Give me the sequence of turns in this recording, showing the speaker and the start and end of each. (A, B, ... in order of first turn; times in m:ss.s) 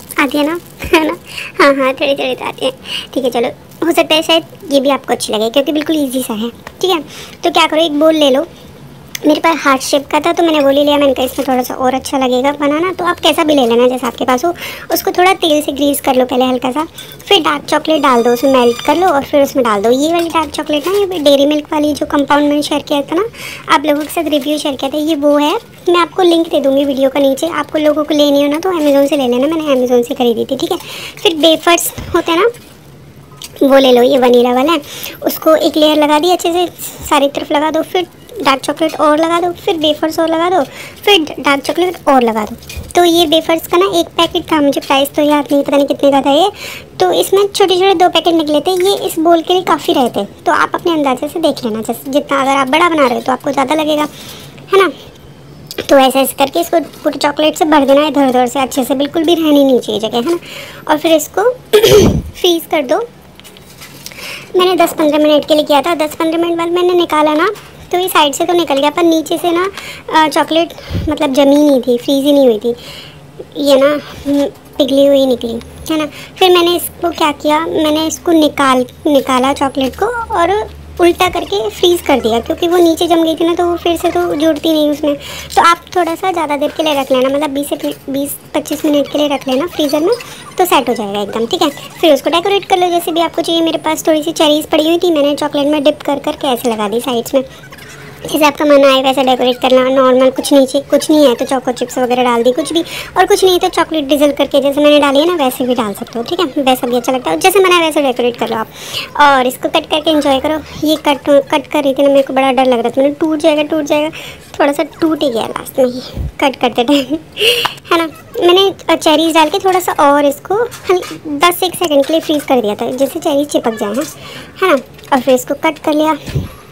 0:00.2-0:08.5 A
0:09.2-0:32.5 A
0:33.6-0:54.1 A
0:54.7-0:54.9 A
0:55.8-1:03.0 A
1:04.5-1:12.8 A
1:13.5-1:37.4 A
1:38.3-2:06.5 A